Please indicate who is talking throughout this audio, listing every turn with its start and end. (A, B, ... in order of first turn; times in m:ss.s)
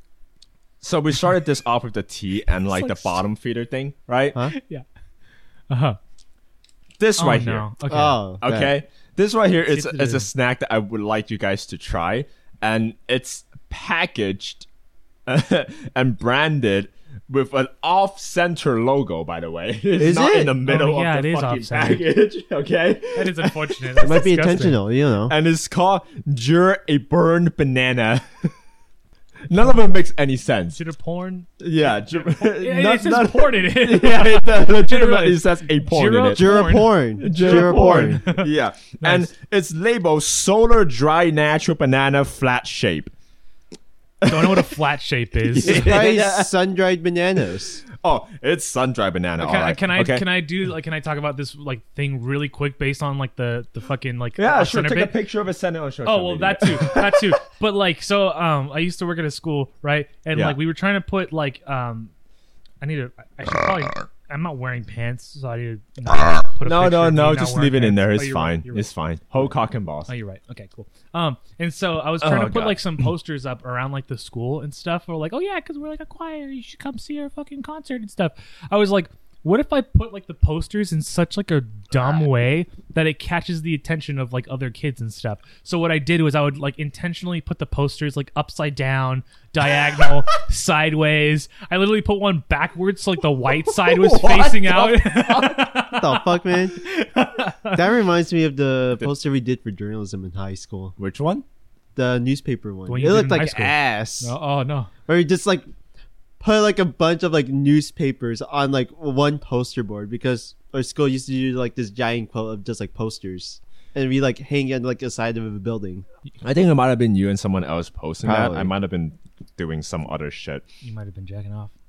0:00.8-0:04.4 A
0:02.6-0:03.2 B
0:04.5-0:04.8 B
0:05.7-0:06.0 B
0:07.0-0:07.7 A
0:07.2-0:08.2 B
0:07.9-0:08.7 C
0:08.4-0:14.7 A
0:09.7-0:10.3 B
0:15.2-0:24.2 A
0:20.0-0:20.6 C
0:20.6-0:22.0 B
0:23.1-0:24.8 B
0:24.0-0:25.3 C
0:25.3-0:28.5 A
0:29.5-0:30.8 A
0:30.7-0:38.5 B
0:31.6-0:43.1 A
0:36.3-0:38.2 C
0:39.0-0:39.3 B
0:44.2-0:44.8 A
0:44.2-0:46.0 B
0:45.4-0:46.5 A
0:45.6-0:47.8 C
0:47.9-0:50.3 A
0:49.4-0:55.2 B
0:54.4-0:57.3 A
0:56.0-1:02.1 B
1:02.8-1:09.6 B
1:06.6-1:10.1 A
1:10.1-1:37.9 B
1:12.2-1:12.9 A
1:33.6-1:35.7 A
1:35.9-1:36.8 C
1:37.7-1:40.9 C
1:41.0-1:41.4 A
1:42.0-1:44.3 C
1:42.9-1:44.9 B
1:45.1-1:45.6 C
1:46.4-1:56.0 C
1:56.4-2:00.6 A
1:58.2-1:58.7 C
2:00.8-2:01.7 B